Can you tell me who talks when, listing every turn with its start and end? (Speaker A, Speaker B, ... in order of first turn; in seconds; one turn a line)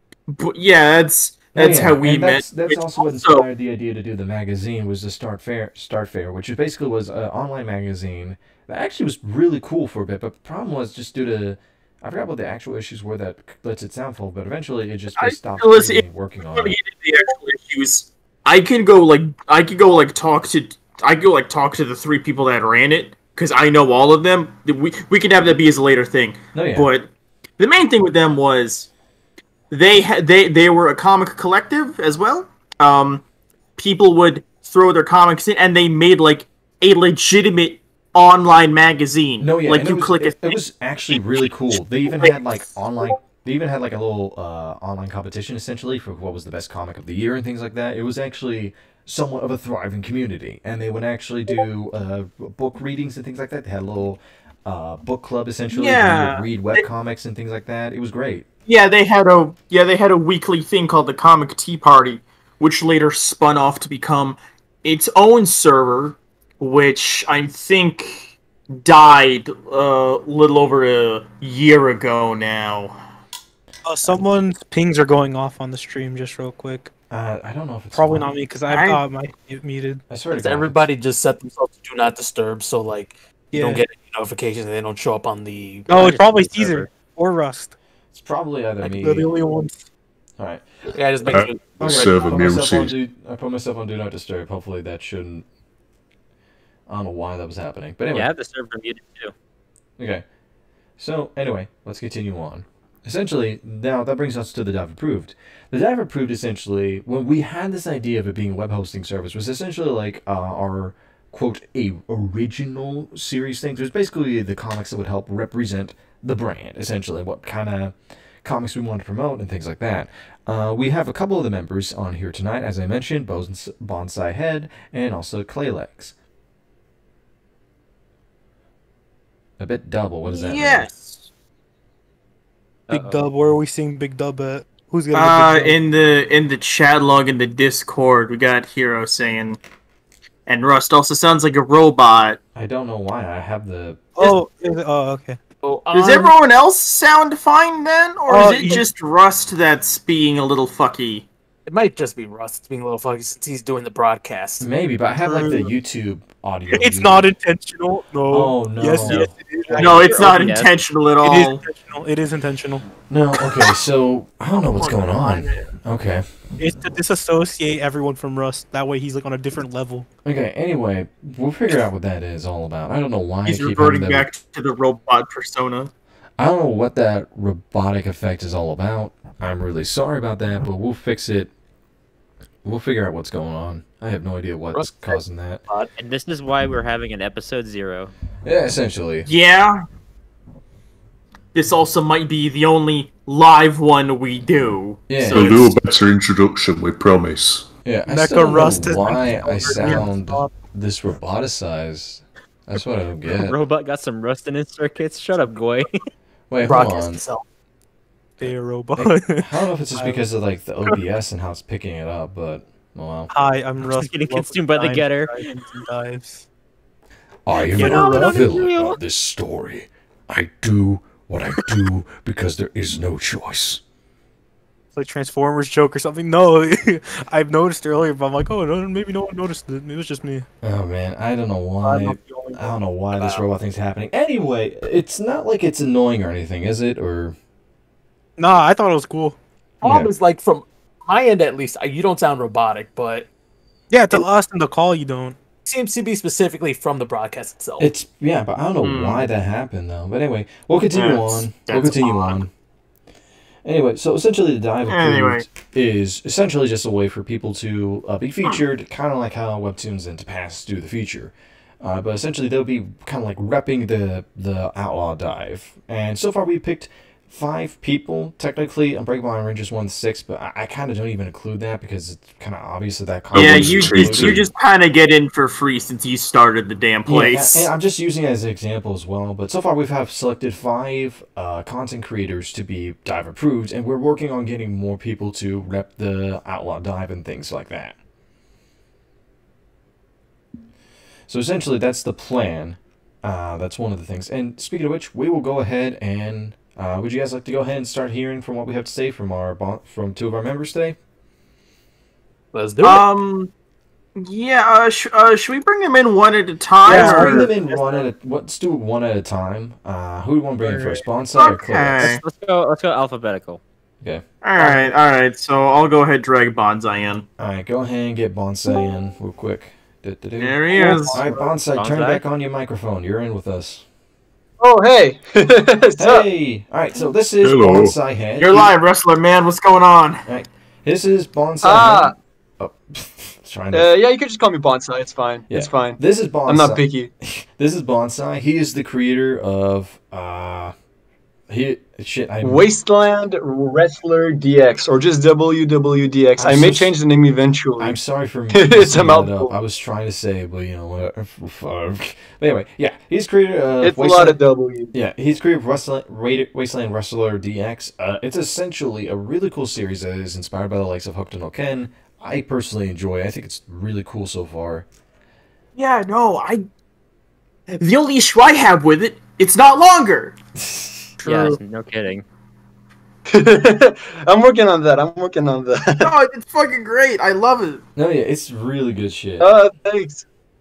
Speaker A: 0.3-3.5
Speaker B: 1.6-16.8
Speaker A: 15.2-28.9
Speaker B: 26.5-26.9
Speaker A: 29.7-33.2
Speaker A: 33.8-41.5
Speaker B: 39.4-58.5
Speaker A: 42.1-43.1
Speaker A: 55.7-56.9
Speaker A: 58.7-73.0
Speaker C: 73.8-76.9
Speaker B: 77.1-78.3
Speaker C: 77.9-80.0
Speaker A: 78.7-79.0
Speaker B: 80.1-80.9
Speaker D: 80.3-86.2
Speaker C: 83.5-83.8
Speaker C: 85.9-87.8
Speaker E: 85.9-86.9
Speaker B: 88.1-89.3
Speaker C: 88.8-89.8
Speaker B: 90.4-95.5
Speaker D: 90.9-92.5
Speaker F: 91.3-93.0
Speaker B: 96.9-98.3
Speaker E: 98.1-99.3
Speaker B: 100.0-100.2
Speaker B: 101.0-126.1
Speaker B: 129.6-131.1
Speaker A: 130.2-131.1
Speaker E: 132.9-133.3
Speaker C: 132.9-135.8
Speaker A: 135.1-139.6
Speaker A: 140.5-142.4
Speaker B: 142.6-144.1
Speaker C: 144.2-145.4
Speaker D: 145.6-146.3
Speaker A: 145.9-151.3
Speaker C: 148.3-148.9
Speaker D: 151.7-154.7
Speaker B: 154.6-157.3
Speaker C: 155.2-155.7
Speaker C: 156.7-160.2
Speaker B: 158.3-159.8
Speaker E: 159.1-160.7
Speaker A: 159.8-161.6
Speaker C: 161.2-162.9
Speaker B: 163.1-166.8
Speaker D: 164.8-165.4
Speaker C: 166.6-170.1
Speaker B: 170.2-174.3
Speaker A: 173.4-175.9
Speaker B: 176.4-181.5
Speaker B: 182.6-185.6
Speaker D: 184.7-185.9
Speaker E: 186.0-188.1
Speaker B: 188.4-189.3
Speaker A: 189.3-189.8
Speaker A: 191.6-195.8
Speaker B: 195.1-195.6
Speaker F: 195.3-197.7
Speaker B: 197.8-203.6
Speaker C: 198.1-200.5
Speaker E: 203.3-206.0
Speaker B: 206.5-207.2
Speaker D: 206.7-207.4
Speaker C: 208.4-210.2
Speaker B: 208.4-213.3
Speaker C: 213.3-216.4
Speaker E: 213.8-215.8
Speaker B: 217.5-223.8
Speaker C: 217.7-218.4
Speaker E: 217.8-219.0
Speaker C: 225.0-230.5
Speaker B: 230.6-237.4
Speaker C: 231.8-232.8
Speaker D: 233.2-233.4
Speaker C: 238.4-239.4
Speaker D: 239.8-243.3
Speaker B: 239.8-240.1
Speaker C: 243.9-245.4
Speaker D: 245.7-247.9
Speaker B: 247.8-252.5
Speaker A: 248.8-249.3
Speaker A: 250.9-252.4
Speaker B: 253.7-274.4
Speaker A: 254.9-255.5
Speaker F: 273.3-274.4
Speaker A: 273.4-277.7
Speaker B: 277.1-288.0
Speaker B: 291.3-301.0
Speaker D: 302.5-303.1
Speaker A: 302.8-303.5
Speaker A: 304.2-307.5
Speaker C: 306.9-308.1
Speaker B: 306.9-312.2
Speaker A: 311.4-312.2
Speaker E: 312.0-313.6
Speaker A: 314.4-317.2
Speaker B: 317.4-323.9
Speaker A: 320.4-321.2
Speaker C: 320.8-321.2
Speaker G: 320.8-321.5
Speaker E: 321.8-322.2
Speaker G: 324.6-326.3
Speaker B: 326.0-328.7
Speaker F: 327.4-327.9
Speaker A: 328.4-330.2
Speaker B: 330.3-333.9
Speaker G: 331.6-332.1
Speaker G: 333.7-337.1
Speaker B: 335.5-340.7
Speaker B: 341.5-342.6
Speaker G: 342.4-348.0
Speaker B: 346.4-346.9
Speaker B: 347.8-354.4
Speaker G: 348.5-349.6
Speaker G: 353.8-354.9
Speaker B: 354.9-364.9
Speaker A: 365.8-366.6
Speaker A: 367.8-370.4
Speaker B: 370.6-371.1
Speaker A: 371.2-371.6
Speaker E: 371.2-372.2
Speaker G: 373.3-376.1
Speaker A: 376.0-377.8
Speaker B: 378.0-379.5
Speaker G: 379.4-380.2